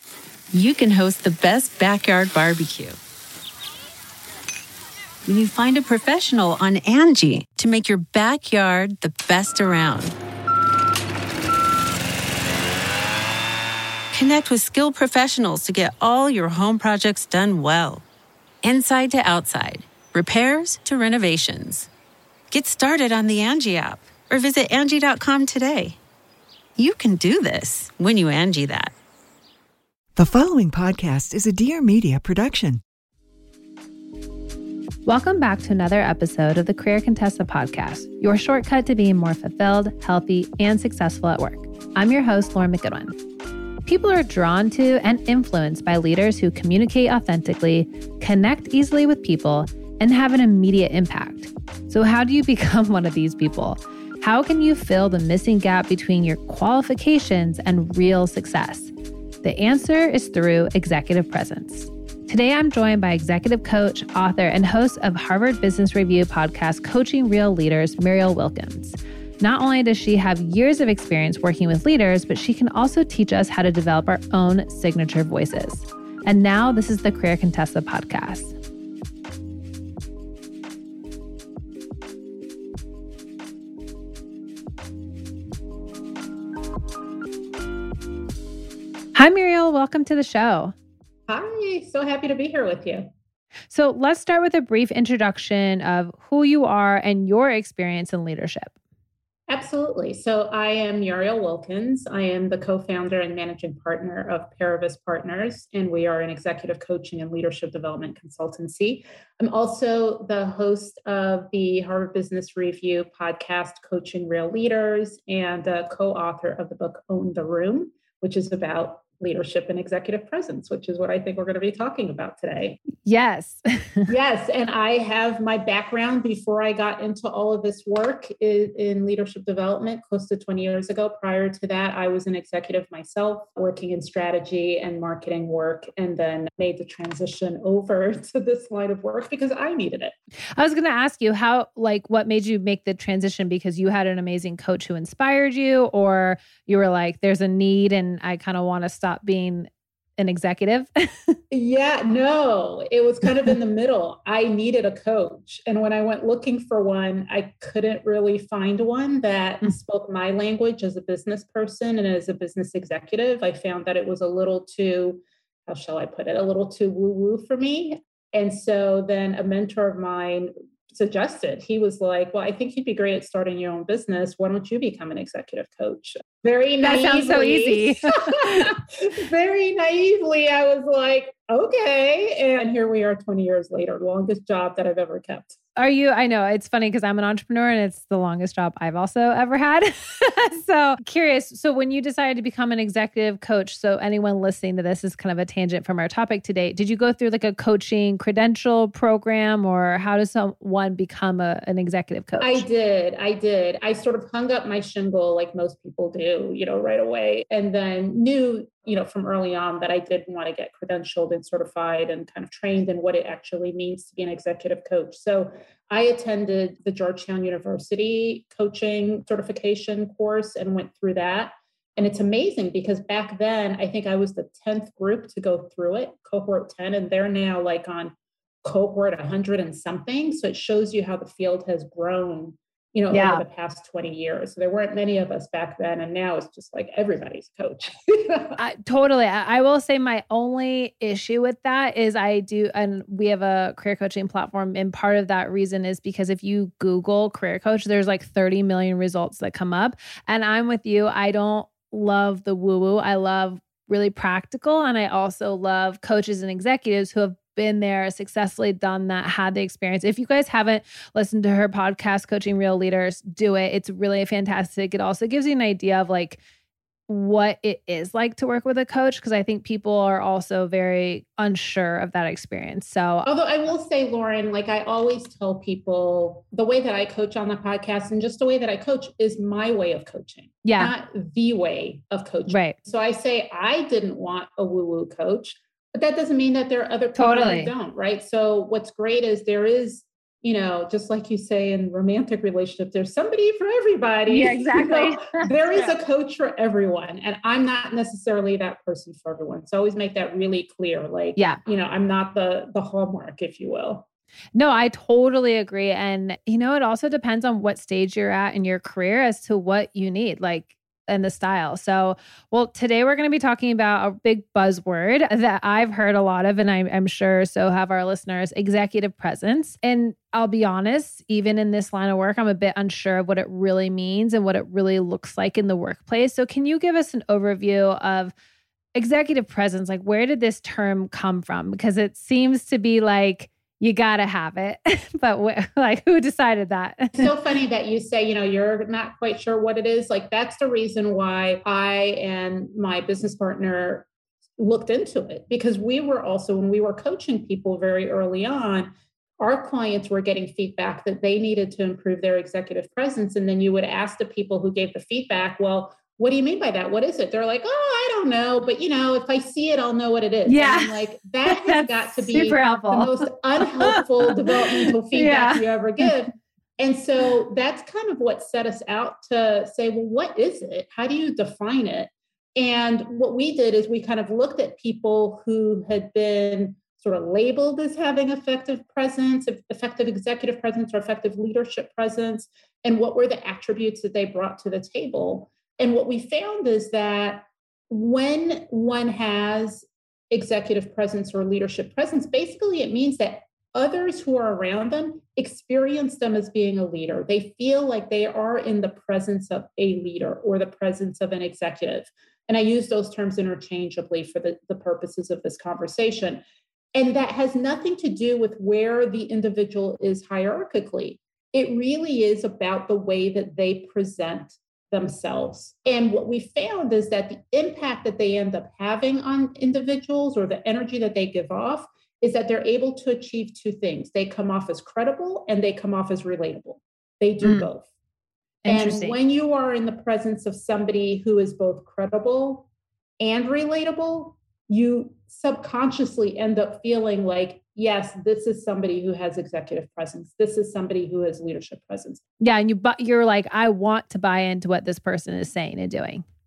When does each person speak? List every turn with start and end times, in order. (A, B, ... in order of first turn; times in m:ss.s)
0:00.5-0:03.0 A
0:05.2-0:10.2 A
0:14.1-0:18.0 A
0:18.6-0:21.9 A
0:22.5-0:26.0 A
0:26.8-0:28.9 A
0:30.2-0:32.8 B
0:35.1-0:43.1 C
0:43.8-0:58.9 C
0:59.4-1:18.6 C
1:29.1-1:30.7 C
1:31.3-1:33.1 D
1:33.7-1:38.7 C
1:39.5-2:02.8 D
2:03.0-2:04.1 C
2:04.1-2:20.2 D
2:20.6-2:31.4 C
2:31.5-3:05.6 D
2:56.8-2:58.7 C
3:05.8-3:22.6 C
3:22.4-3:58.6 D
3:53.1-3:53.4 C
3:58.6-4:26.4 C
4:27.1-4:33.3 C
4:33.2-5:04.1 D
4:40.6-4:40.9 C
4:42.5-4:42.8 C
4:47.1-4:47.7 C
4:54.3-4:55.5 C
5:04.6-5:28.3 C
5:28.9-5:37.3 C
5:37.2-6:46.4 D
6:00.4-6:05.6 C
6:46.9-7:07.9 D
7:07.4-7:07.7 C
7:08.6-7:09.2 C
7:08.7-7:12.7 D
7:13.2-7:22.2 D
7:22.4-7:26.2 C